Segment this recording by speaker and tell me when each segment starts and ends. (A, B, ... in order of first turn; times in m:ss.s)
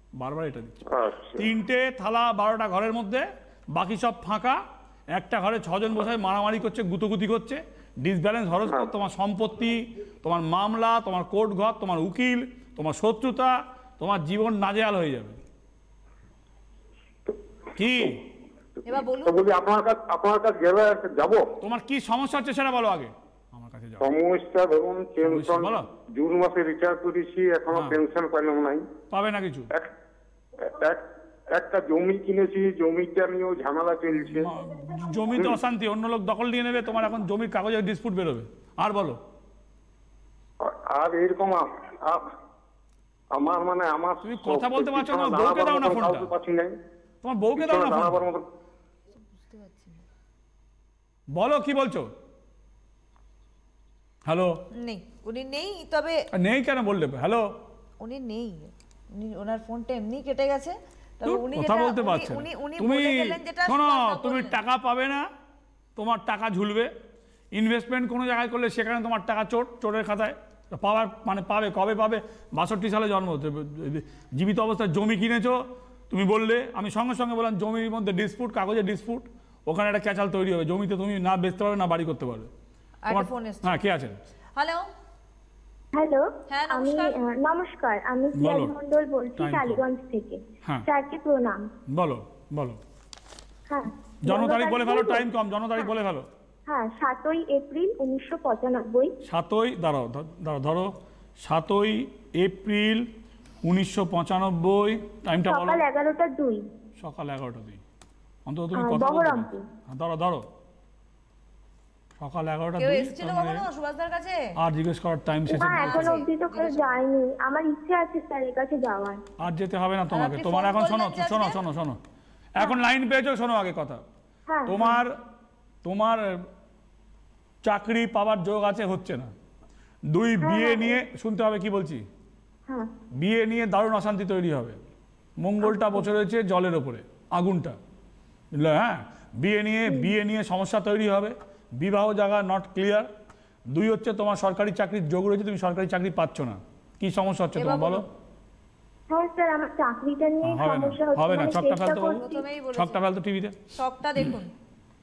0:00.2-0:04.6 A
0:00.9-0:01.5 B
0:05.1-0:15.4 A
0:17.8-0:18.2 A
0:18.8-0:19.5 C
0:19.2-0:21.5 B
0:21.6-0:24.2 A
0:24.0-0:28.8 B
0:25.2-0:25.9 A
0:27.7-0:28.0 A
0:29.1-0:29.7 A
0:30.6-0:34.5 B
0:34.2-0:39.2 A
0:40.6-0:42.3 B
0:43.3-0:46.8 B
0:44.2-0:46.3 A
0:47.2-0:48.3 A
0:47.6-0:48.4 B
0:49.3-0:50.0 C
0:51.3-0:52.1 A
0:54.2-0:54.6 A
0:54.8-0:56.2 C
0:56.3-0:57.5 A
0:58.0-1:04.6 C
1:01.2-1:05.3 A
1:06.0-1:06.9 A
1:07.5-1:22.5 A
1:23.0-1:23.8 C
1:23.1-1:24.2 A
1:24.6-1:24.8 C
1:25.9-1:31.6 D
1:26.5-1:27.2 C
1:28.3-1:28.7 A
1:29.4-1:29.8 A
1:31.9-1:32.8 A
1:33.7-1:35.2 D
1:34.2-1:36.3 A
1:36.7-1:39.1 D
1:39.2-1:43.1 A
1:43.6-1:45.8 A
1:45.4-1:46.6 D
1:47.0-1:47.8 A
1:48.4-1:50.4 A
1:48.7-1:49.6 D
1:52.2-1:53.7 A
1:52.8-1:54.5 C
1:54.6-1:56.2 A
1:55.4-1:59.2 D
1:55.5-1:57.0 C
1:59.4-2:02.0 A
2:00.1-2:01.6 C
2:02.5-2:04.0 A
2:04.5-2:05.0 D
2:04.7-2:05.2 A
2:05.8-2:06.4 A
2:07.6-2:09.3 A
2:10.1-2:12.0 A
2:10.4-2:11.0 D
2:13.2-2:14.8 A
2:15.4-2:17.8 A
2:15.7-2:16.0 D
2:18.5-2:23.1 A
2:23.7-2:28.0 A
2:27.5-2:28.0 C
2:29.1-2:32.4 D
2:30.4-2:33.6 A
2:32.1-2:33.0 C
2:33.7-2:34.5 C